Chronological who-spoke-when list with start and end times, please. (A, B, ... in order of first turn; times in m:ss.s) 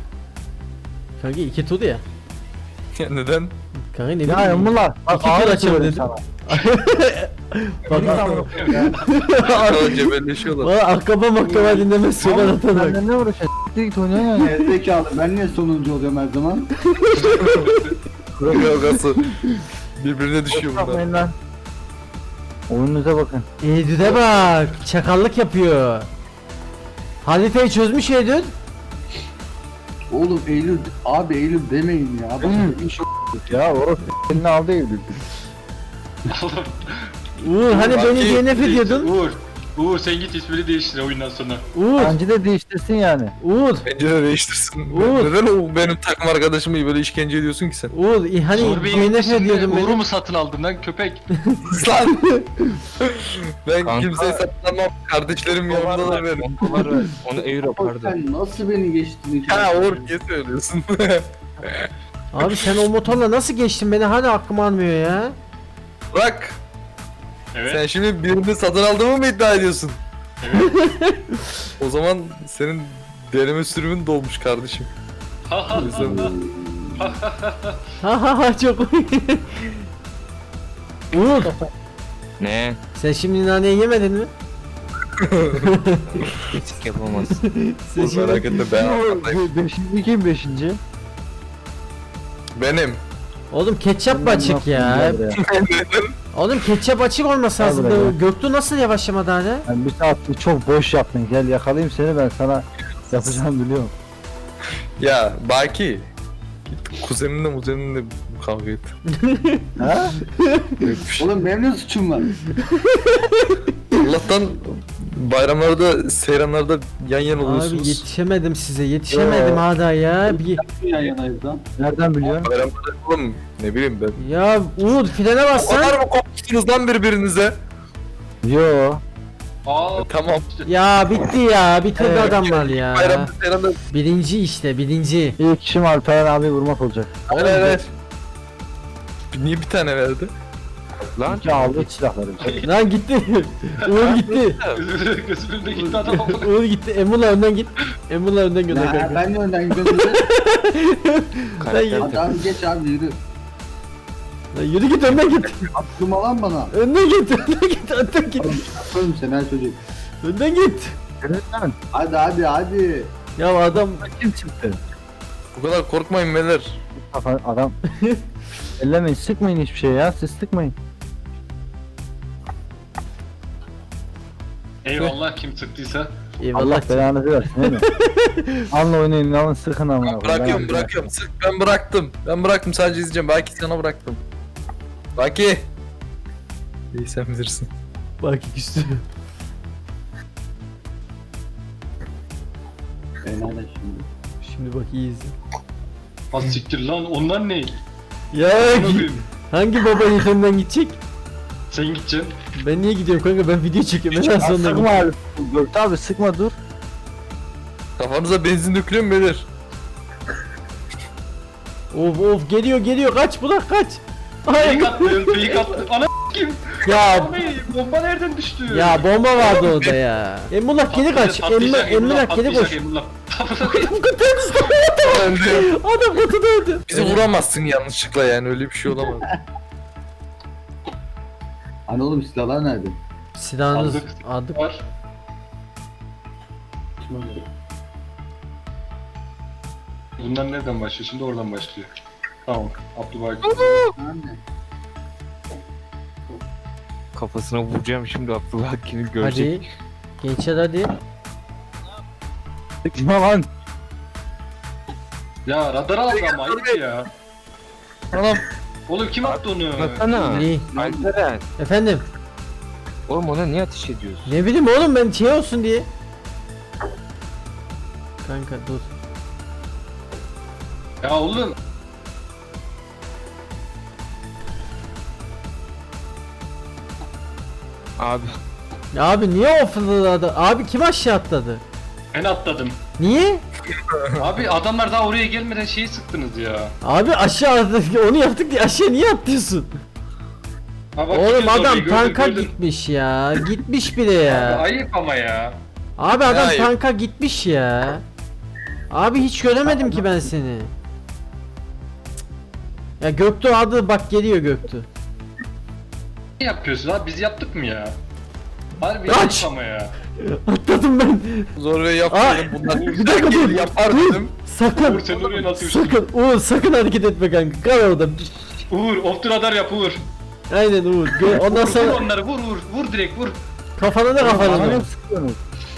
0:01.2-0:02.0 A
0:03.0-0:03.5 B
0:03.9-0:09.8 A
0:04.3-0:06.2 C
0:07.9-0:08.5 B
0:07.9-0:09.0 C
0:08.6-0:09.3 D
0:09.3-0:10.7 B
0:10.6-0:13.0 A
0:12.2-0:14.6 C
0:14.4-0:16.7 E
0:16.9-0:17.3 A
0:17.1-0:18.0 D
0:17.4-0:17.7 B
0:18.4-0:19.4 B
0:20.0-0:21.0 B
0:20.5-0:21.3 C
0:22.7-0:23.5 C
0:23.6-0:26.1 A
0:27.2-0:28.5 A
0:30.1-0:32.9 E
0:32.4-0:35.1 C
0:36.3-0:37.1 D
0:37.4-0:39.1 A
0:37.7-0:41.6 D
0:37.7-0:38.5 B
0:41.8-0:42.2 A
0:42.0-0:43.4 C
0:43.4-0:43.9 A
0:43.9-0:47.9 B
0:44.9-0:45.4 A
0:47.9-0:50.0 A
0:48.5-0:51.3 D
0:51.6-0:52.5 B
0:53.0-0:56.6 B
0:53.8-0:54.3 F
0:55.7-0:58.2 F
0:57.4-1:00.1 E
0:59.5-1:01.9 B
1:02.3-1:05.4 A
1:02.4-1:02.7 B
1:06.1-1:06.6 B
1:07.5-1:07.8 D
1:07.7-1:10.0 B
1:10.4-1:10.8 D
1:10.6-1:11.3 A
1:11.8-1:14.9 B
1:15.5-1:16.3 D
1:15.7-1:17.1 E
1:15.8-1:16.2 B
1:17.0-1:17.8 D
1:18.0-1:19.8 A
1:21.1-1:21.6 A
1:22.4-1:22.8 F
1:23.0-1:24.3 A
1:25.2-1:25.7 B
1:25.6-1:28.7 A
1:26.7-1:27.4 F
1:28.0-1:29.4 B
1:28.7-1:30.8 C
1:32.6-1:33.0 B
1:33.5-1:35.2 A
1:34.1-1:35.4 C
1:35.4-1:36.2 B
1:36.3-1:39.7 A
1:37.6-1:38.2 C
1:39.7-1:43.9 C
1:43.1-1:43.4 B
1:45.0-1:46.1 B
1:46.7-1:48.9 B
1:49.2-1:49.7 A
1:49.8-1:50.1 C
1:50.4-1:50.7 A
1:50.8-1:51.3 B
1:51.2-1:52.3 E
1:52.6-1:53.6 A
1:54.0-1:58.0 B
1:57.4-2:00.6 A
1:59.1-1:59.6 C
2:00.3-2:01.6 E
2:01.8-2:02.5 C
2:02.3-2:04.2 B
2:04.2-2:06.0 A
2:05.6-2:07.6 B
2:08.4-2:09.0 C
2:09.7-2:10.7 D
2:10.0-2:10.4 B
2:10.7-2:13.3 A
2:12.0-2:13.8 B
2:13.9-2:15.4 A
2:15.4-2:17.8 C
2:17.3-2:17.9 B
2:19.3-2:20.3 B
2:21.1-2:21.8 F
2:21.3-2:22.5 C
2:22.4-2:22.7 D
2:22.6-2:24.6 A
2:23.9-2:24.2 D
2:24.2-2:24.8 F
2:24.7-2:26.5 D
2:25.8-2:32.3 A
2:28.7-2:30.3 E
2:31.6-2:32.2 F
2:32.0-2:33.2 E
2:34.5-2:35.7 A
2:35.7-2:36.7 E
2:36.7-2:38.6 A
2:38.4-2:39.8 E
2:40.2-2:41.0 A
2:41.2-2:41.8 C
2:41.9-2:43.1 E
2:43.4-2:44.0 A
2:43.7-2:44.8 C
2:45.6-2:46.8 B
2:47.0-2:47.8 C
2:48.8-2:50.8 C
2:54.8-2:56.1 D
2:56.4-2:58.7 A
2:56.5-2:57.9 C
2:58.7-3:01.1 C
3:00.0-3:04.2 B
3:05.2-3:05.6 B
3:06.9-3:07.7 B
3:08.2-3:09.0 A
3:13.2-3:14.1 E
3:14.4-3:15.3 A
3:16.3-3:17.8 D
3:18.3-3:21.0 A
3:18.6-3:19.3 D
3:21.7-3:22.3 D
3:22.6-3:24.9 A
3:24.1-3:24.5 B
3:24.4-3:26.6 C
3:28.0-3:29.5 B
3:31.9-3:35.6 A
3:34.5-3:39.1 D
3:36.8-3:37.4 A
3:38.7-3:42.8 A
3:39.4-3:40.0 B
3:40.9-3:44.0 D
3:43.8-3:47.2 A
3:45.0-3:45.7 B
3:46.9-3:49.3 B
3:51.9-3:53.0 E
3:53.4-3:54.6 A
3:53.7-3:54.8 D
3:57.0-3:57.4 E
4:00.2-4:01.9 D
4:02.5-4:03.8 D
4:03.6-4:04.4 E
4:07.1-4:09.6 F
4:09.2-4:09.6 A
4:10.2-4:10.9 A
4:12.9-4:13.5 C
4:15.5-4:17.1 D
4:16.1-4:16.8 B
4:18.1-4:18.4 B
4:18.9-4:20.1 D
4:19.8-4:21.4 F
4:20.2-4:20.7 A
4:20.6-4:21.1 E
4:21.6-4:22.0 A
4:23.1-4:24.3 F
4:24.3-4:25.9 A
4:28.2-4:28.9 A
4:31.0-4:31.6 D
4:38.0-4:38.4 F
4:38.9-4:41.6 A
4:42.1-4:42.8 D
4:43.0-4:43.4 A
4:43.8-4:44.0 B
4:44.2-4:46.7 D
4:46.8-4:49.7 A
4:51.0-4:52.5 D
4:51.1-4:54.6 A
4:54.2-4:55.6 D
4:56.0-4:58.0 A
4:56.2-4:56.7 B
4:58.9-5:00.7 A
5:03.0-5:04.9 A
5:06.4-5:08.0 D
5:08.8-5:09.9 D
5:09.1-5:09.5 A
5:10.2-5:11.5 A
5:11.6-5:14.3 B
5:12.1-5:18.3 A
5:12.7-5:13.1 D
5:14.7-5:16.0 D
5:18.7-5:20.0 D
5:20.5-5:22.0 A
5:21.3-5:23.4 D
5:23.8-5:24.9 A
5:24.2-5:25.4 C